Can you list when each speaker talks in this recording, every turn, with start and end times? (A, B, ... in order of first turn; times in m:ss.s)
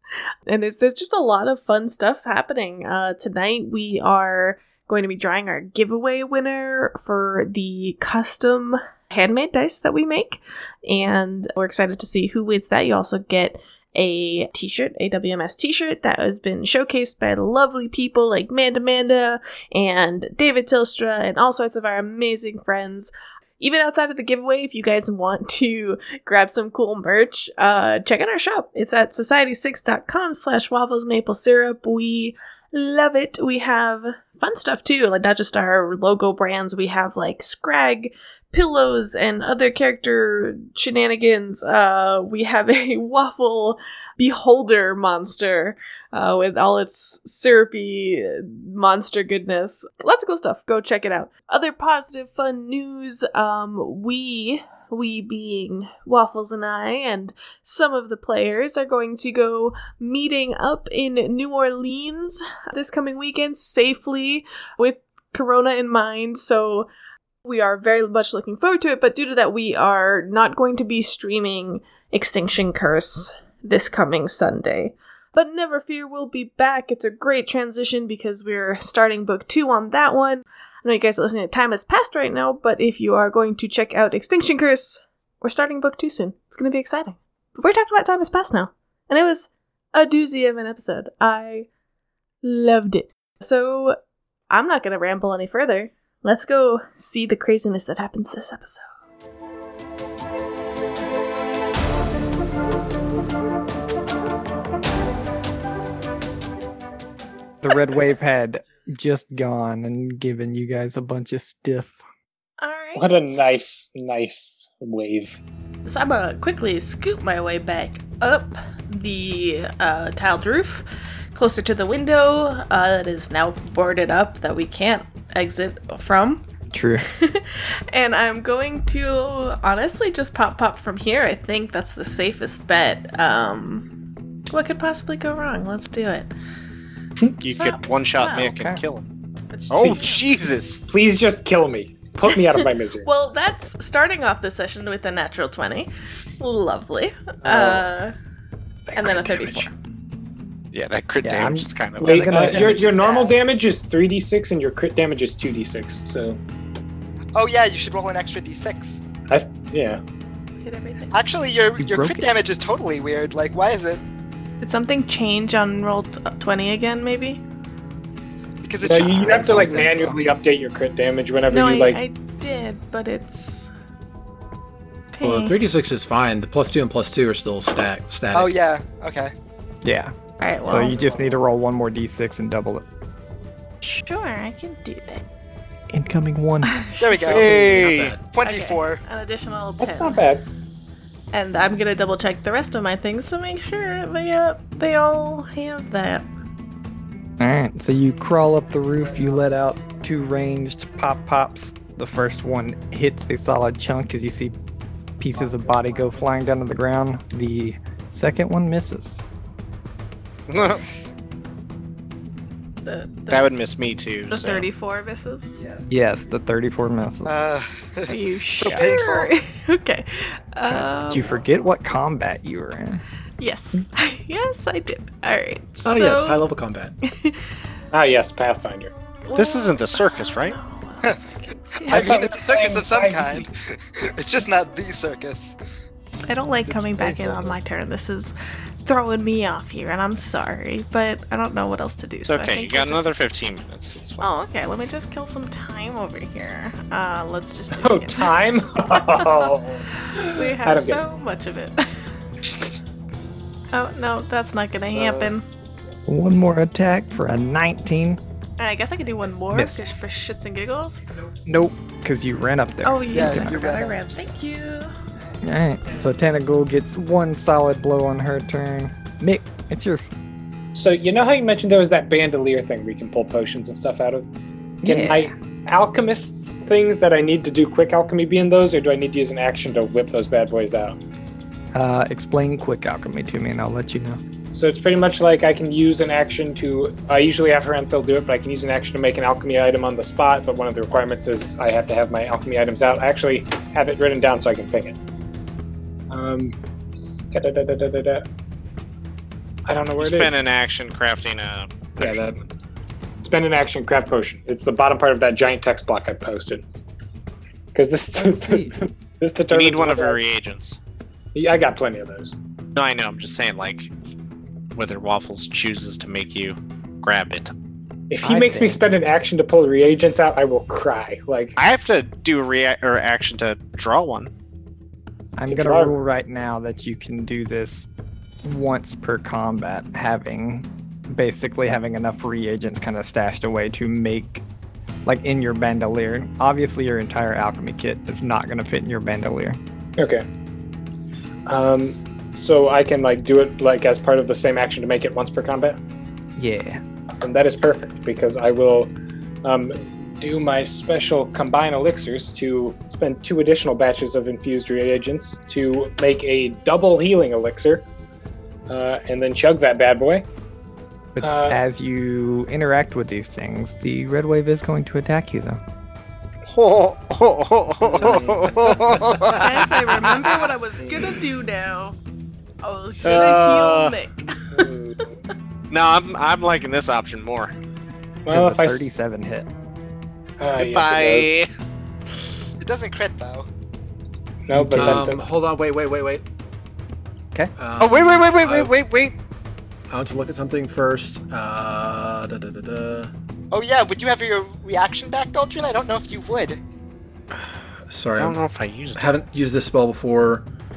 0:00.5-1:06.9 A
1:07.4-1:31.7 A
1:32.4-1:34.0 A
1:34.5-1:38.9 A
1:47.6-1:52.0 B
1:52.6-1:53.1 A
1:52.9-1:55.4 C
1:55.8-2:00.8 A
2:01.3-2:06.4 A
2:06.7-2:07.0 B
2:07.1-2:13.9 A
2:14.5-2:16.3 A
2:17.4-2:19.0 D
2:17.6-2:18.5 A
2:18.4-2:18.8 B
2:19.5-2:20.2 A
2:19.7-2:20.8 D
2:20.9-2:23.1 C
2:22.3-2:28.1 A
2:27.4-2:27.8 C
2:28.9-2:29.7 B
2:28.9-2:29.7 A
2:30.7-2:32.6 D
2:31.2-2:32.8 B
2:32.0-2:36.4 C
2:32.5-2:33.3 E
2:32.8-2:33.3 A
2:37.3-2:39.0 E
2:39.3-2:40.0 C
2:40.6-2:41.1 A
2:41.1-2:44.0 E
2:41.8-2:42.3 B
2:44.6-2:47.4 A
2:48.6-2:50.2 E
2:48.8-2:52.0 C
2:49.4-2:50.1 B
2:51.5-2:53.7 A
2:55.1-2:55.6 A
2:55.2-2:58.5 F
2:58.3-2:59.3 E
2:59.8-3:00.1 B
3:00.4-3:01.2 A
3:00.7-3:02.8 B
3:03.8-3:05.2 A
3:05.9-3:06.8 B
3:06.6-3:07.4 A
3:07.0-3:07.7 E
3:07.3-3:08.2 D
3:07.3-3:08.2 F
3:08.3-3:09.0 E
3:08.4-3:10.3 A
3:09.8-3:10.4 C
3:11.3-3:16.3 A
3:17.4-3:24.5 B
3:25.2-3:29.2 B
3:30.5-3:30.8 D
3:32.8-3:33.5 A
3:33.3-3:34.7 D
3:34.3-3:35.6 A
3:35.7-3:37.4 B
3:37.2-3:39.3 E
3:38.1-3:41.4 A
3:40.7-3:43.0 B
3:43.4-3:46.4 A
3:45.8-3:46.9 F
3:47.0-3:47.5 A
3:47.9-3:48.9 C
3:49.2-3:52.3 A
3:49.3-3:50.6 D
3:51.9-3:55.5 E
3:51.9-3:53.4 C
3:56.3-3:58.3 A
3:56.6-3:57.6 E
3:58.8-4:03.2 A
4:02.2-4:04.3 D
4:04.2-4:08.4 A
4:07.7-4:11.0 C
4:08.9-4:09.5 A
4:10.1-4:12.0 A
4:13.7-4:15.4 A
4:14.9-4:15.3 E
4:16.1-4:18.2 B
4:18.6-4:21.0 A
4:19.5-4:19.8 B
4:21.4-4:23.6 B
4:22.8-4:24.9 A
4:23.1-4:24.3 E
4:25.4-4:30.1 B
4:30.7-4:34.3 C
4:34.8-4:35.3 B
4:34.8-4:41.0 C
4:41.7-4:44.2 B
4:44.5-4:55.0 C
4:56.1-4:58.2 C
4:59.6-5:00.4 C
5:00.0-5:02.3 D
5:02.0-5:02.4 C
5:03.2-5:06.6 C
5:07.7-5:10.2 C
5:08.1-5:08.8 B
5:09.5-5:10.8 D
5:11.3-5:12.4 C
5:12.7-5:13.9 D
5:14.7-5:17.5 D
5:18.1-5:21.6 C
5:18.2-5:18.8 B
5:21.6-5:24.3 D
5:25.4-5:27.9 B
5:25.5-5:25.9 C
5:28.4-5:34.4 B
5:35.0-5:39.6 B
5:40.0-5:40.2 C
5:41.4-5:45.8 C
5:46.4-5:46.8 B
5:47.2-5:48.9 C
5:49.4-5:57.8 C
5:58.7-6:00.2 C
6:01.2-6:05.6 B
6:01.2-6:01.6 C
6:06.5-6:09.6 D
6:07.9-6:08.8 C
6:09.4-6:12.0 A
6:12.6-6:15.0 A
6:13.0-6:14.0 D
6:14.5-6:15.1 C
6:15.7-6:17.5 D
6:18.2-6:18.9 C
6:18.3-6:19.5 B
6:20.4-6:21.4 C
6:20.6-6:21.5 D
6:22.6-6:23.5 E
6:24.5-6:25.2 C
6:24.5-6:25.0 B
6:24.6-6:26.2 F
6:27.6-6:28.7 F
6:27.8-6:29.2 D
6:29.9-6:33.1 F
6:33.5-6:36.6 E
6:37.3-6:38.4 F
6:38.2-6:39.1 D
6:38.9-6:40.4 F